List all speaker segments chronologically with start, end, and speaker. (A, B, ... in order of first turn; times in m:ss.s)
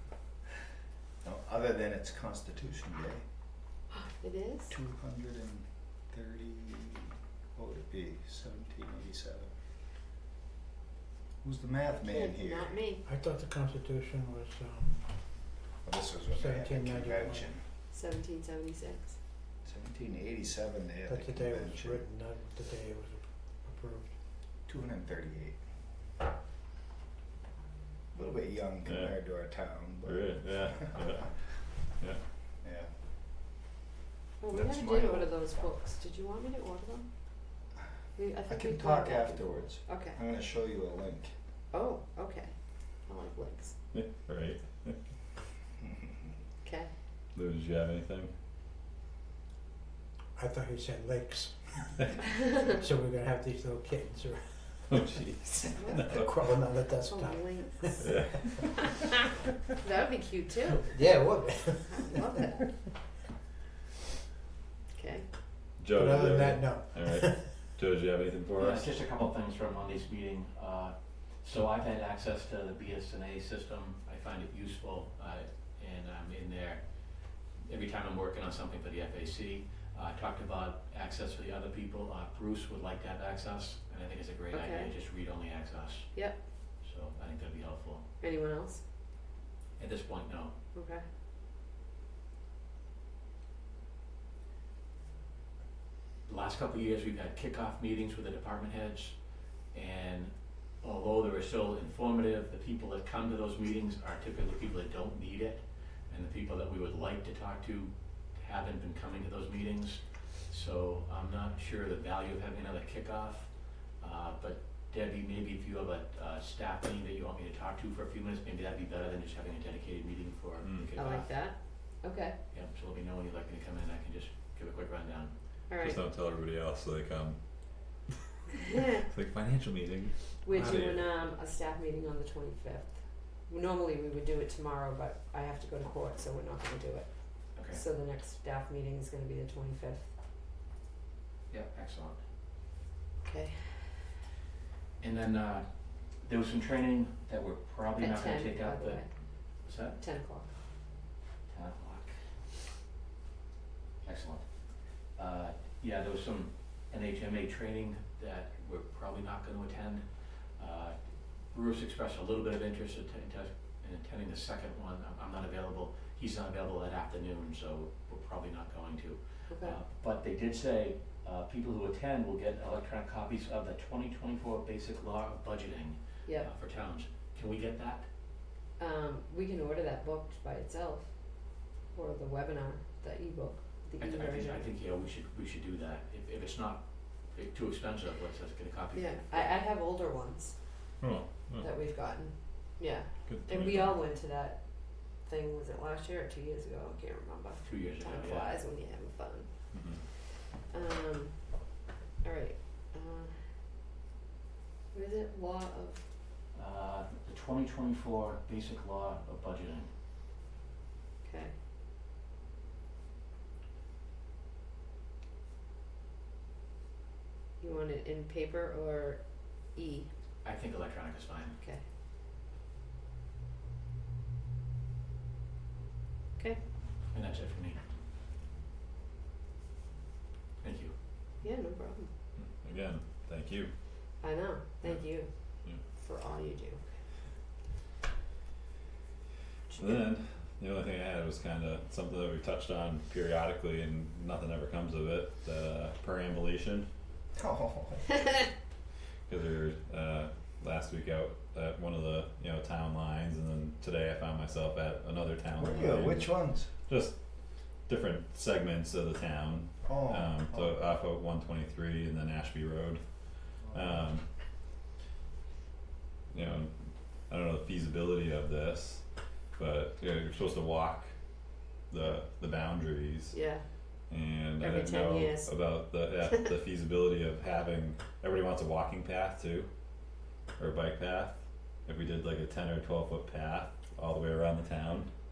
0:01.2-0:03.2 A
0:03.9-0:04.7 B
0:04.7-0:09.5 A
0:11.4-0:12.8 A
0:11.9-0:13.0 B
0:13.0-0:15.5 C
0:15.8-0:17.7 A
0:16.3-0:17.6 C
0:17.9-0:19.2 B
0:19.6-0:22.1 A
0:21.1-0:24.2 C
0:24.6-0:25.6 A
0:28.1-0:31.3 A
0:28.8-0:32.2 D
0:32.6-0:32.9 A
0:34.4-0:37.6 B
0:34.5-0:35.5 A
0:38.2-0:40.2 B
0:38.5-0:41.4 A
0:41.7-0:43.8 B
0:43.9-0:45.0 D
0:46.6-0:46.9 B
0:47.3-0:48.3 D
0:50.4-0:51.9 C
0:52.5-0:55.0 C
0:54.9-0:56.3 D
0:55.8-0:56.1 B
0:56.1-0:58.2 C
0:57.0-0:58.5 B
0:58.0-0:58.8 D
0:59.8-1:01.2 B
1:00.9-1:02.2 C
1:01.9-1:02.8 B
1:04.9-1:05.3 B
1:05.8-1:08.9 D
1:05.9-1:07.6 C
1:08.6-1:16.9 E
1:17.6-1:26.2 E
1:24.5-1:24.9 B
1:26.1-1:26.4 B
1:26.8-1:28.0 E
1:28.2-1:28.8 B
1:29.8-1:30.5 E
1:30.7-1:31.0 B
1:36.2-2:01.3 E
2:00.6-2:00.9 D
2:01.0-2:02.4 B
2:02.5-2:05.3 E
2:05.7-2:06.0 B
2:05.8-2:08.0 D
2:08.7-2:09.0 B
2:09.0-2:11.1 D
2:10.4-2:20.1 B
2:17.5-2:17.8 E
2:21.5-2:22.2 E
2:23.2-2:24.2 B
2:25.0-2:29.0 E
2:28.0-2:29.1 B
2:29.6-2:30.0 E
2:30.0-2:30.5 B
2:31.5-2:32.2 E
2:34.0-2:40.0 E
2:40.6-2:41.0 E
2:41.5-2:58.1 E
2:49.5-2:49.8 B
2:58.8-3:04.7 B
3:04.0-3:09.6 E
3:08.9-3:10.8 B
3:11.0-3:11.7 D
3:11.6-3:23.5 B
3:13.3-3:14.0 D
3:17.6-3:18.6 E
3:19.7-3:20.0 D
3:24.9-3:26.0 B
3:26.5-3:29.9 E
3:31.2-3:31.6 B
3:37.6-3:40.1 B
3:40.4-3:41.6 E
3:47.1-3:47.8 E
3:50.6-3:50.9 E
3:51.4-3:52.1 B
3:52.4-3:53.7 D
3:54.2-3:56.9 B
3:54.8-3:55.8 D
3:59.7-4:00.0 B
3:59.8-4:06.9 D
4:07.4-4:08.1 A
4:09.3-4:17.2 D
4:15.6-4:16.7 A
4:17.9-4:23.0 D
4:19.9-4:20.8 A
4:23.7-4:24.0 A
4:23.7-4:24.2 D
4:26.3-4:26.7 D
4:27.3-4:29.0 D
4:29.6-4:31.1 D
4:31.9-4:33.4 D
4:33.3-4:33.6 B
4:34.1-4:39.7 D
4:34.6-4:35.8 B
4:40.6-4:45.1 D